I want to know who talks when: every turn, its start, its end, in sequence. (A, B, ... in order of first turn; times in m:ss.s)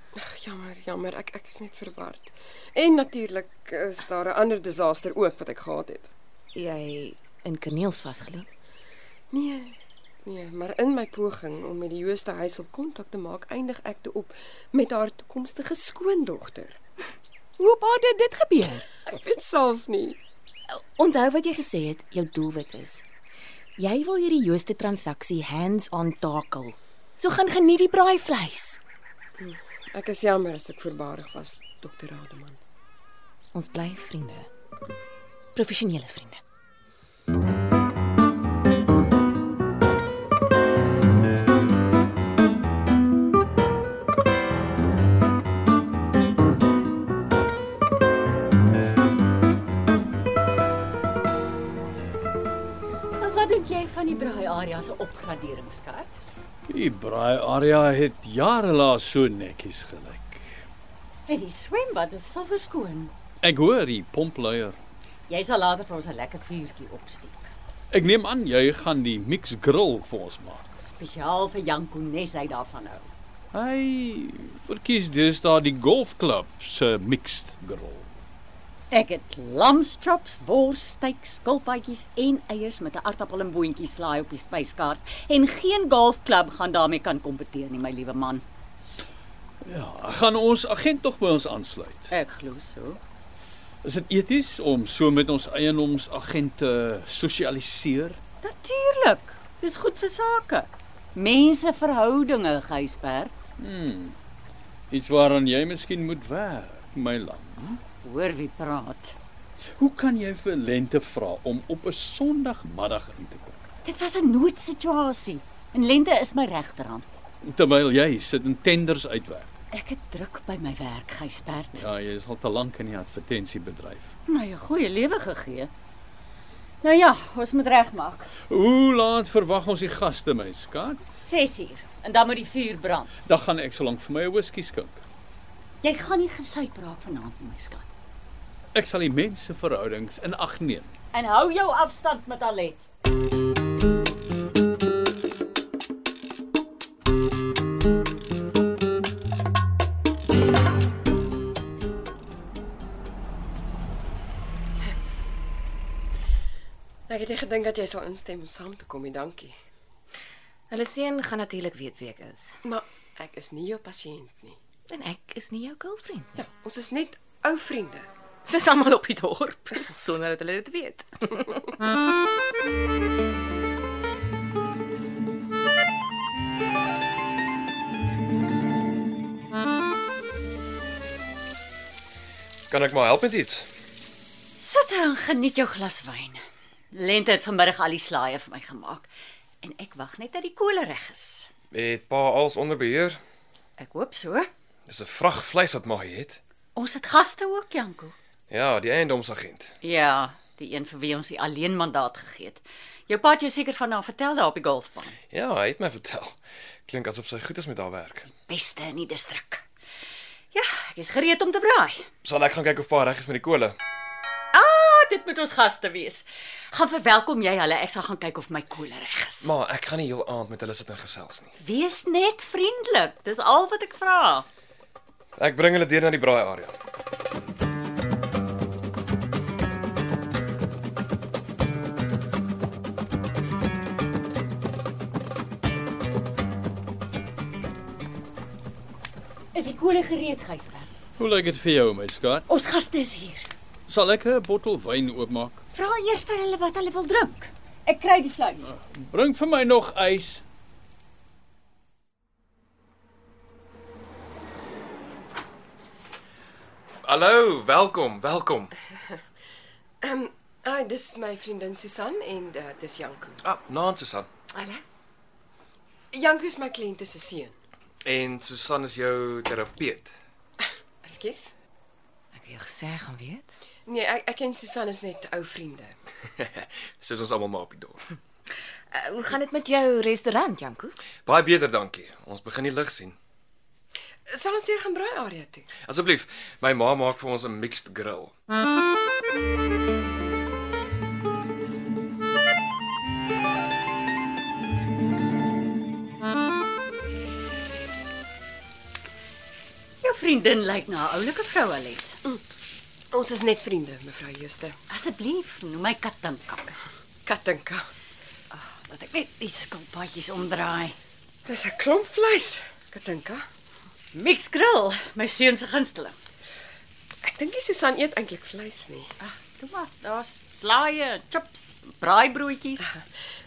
0:00.2-0:06.1 A
0:06.6-0:08.5 B
0:09.3-0:16.8 A
0:17.6-0:19.0 B
0:19.1-0:20.2 A
0:20.7-0:23.0 B
0:23.8-0:28.8 B
0:29.4-0:32.6 A
0:33.5-0:34.5 B
0:35.6-0:36.4 B
0:53.2-0:56.2 C
0:56.7-1:00.5 D
1:01.3-1:03.1 C
1:03.4-1:04.8 D
1:05.3-1:07.5 C
1:07.9-1:10.8 D
1:10.8-1:13.1 C
1:13.5-1:18.1 D
1:18.9-1:28.4 C
1:29.6-1:32.1 D
1:32.1-1:33.0 C
1:33.8-1:38.2 D
1:38.4-1:43.4 C
1:43.6-1:44.2 D
1:44.9-1:47.8 D
1:48.0-1:49.2 C
1:49.8-1:53.7 D
1:53.8-1:57.2 C
1:57.4-1:59.5 D
1:59.7-2:01.9 C
2:01.7-2:04.1 D
2:04.3-2:05.7 C
2:06.8-2:08.3 C
2:08.5-2:11.0 D
2:11.2-2:13.2 C
2:13.2-2:15.0 D
2:15.8-2:17.9 C
2:18.7-2:20.9 D
2:21.1-2:22.9 C
2:37.1-2:39.5 A
2:40.7-2:42.6 B
2:42.6-2:44.6 A
2:44.9-2:46.4 B
2:46.4-2:48.1 A
2:48.5-2:51.8 B
3:02.7-3:03.7 E
3:04.6-3:06.4 C
3:06.9-3:09.1 C
3:09.6-3:11.5 C
3:11.7-3:13.2 E
3:13.8-3:14.5 C
3:14.9-3:16.4 E
3:16.8-3:18.2 C
3:18.5-3:19.8 E
3:19.8-3:25.2 C
3:25.3-3:28.3 E
3:28.5-3:29.6 C
3:30.5-3:32.1 C
3:32.2-3:33.8 E
3:34.5-3:39.5 C
3:39.4-3:41.6 E
3:41.6-3:44.5 C
3:45.4-3:46.8 E
3:59.5-4:00.9 C
4:01.2-4:02.5 D
4:02.5-4:03.5 C
4:03.9-4:05.6 D
4:05.7-4:08.7 C
4:08.6-4:10.4 D
4:17.0-4:18.7 E
4:20.0-4:23.4 A
4:23.4-4:24.3 E
4:26.1-4:27.6 A
4:28.0-4:30.2 E
4:31.0-4:31.6 A
4:32.3-4:33.6 B
4:33.9-4:35.9 A
4:36.4-4:38.2 E
4:38.9-4:41.0 B
4:41.3-4:43.2 E
4:44.3-4:45.7 A
4:45.8-4:48.3 E
5:00.0-5:02.2 C
5:03.1-5:04.8 A
5:04.9-5:06.8 C
5:07.3-5:07.9 A
5:08.5-5:11.0 C
5:11.5-5:13.4 A
5:14.1-5:16.2 C
5:17.2-5:19.1 A
5:19.2-5:22.9 C